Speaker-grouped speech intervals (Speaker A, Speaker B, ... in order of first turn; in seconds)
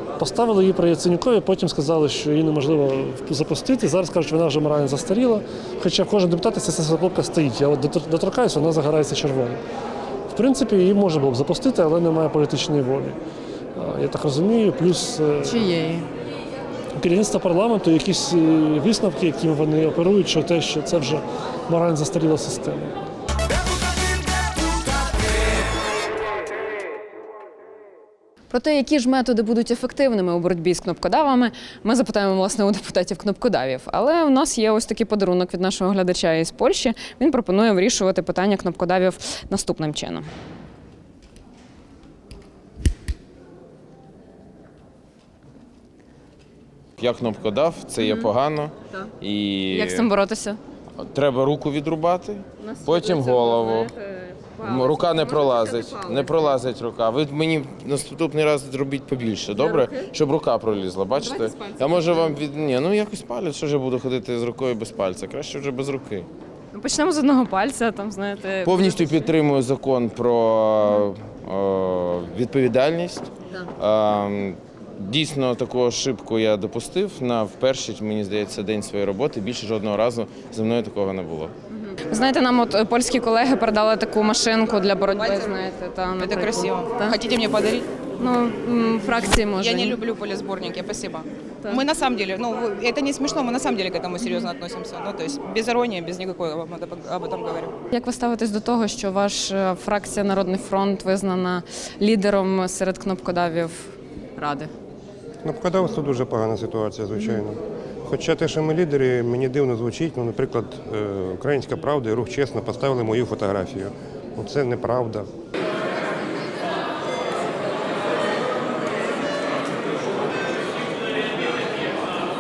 Speaker A: 0.2-9.6, 10.3-13.2, 13.8-15.6, 17.0-23.0
Speaker B: 15.4-16.1, 28.5-40.3, 48.0-48.3, 49.7-50.6, 52.6-53.7, 54.7-56.4, 59.6-59.9, 61.2-62.4, 66.7-69.3, 82.1-87.2, 88.2-90.0, 97.9-104.7
Speaker C: 47.0-50.1, 51.0-53.9, 54.5-66.3, 68.7-81.5
Speaker D: 85.2-85.6, 86.2-87.9, 89.5-97.7
Speaker E: 105.4-115.3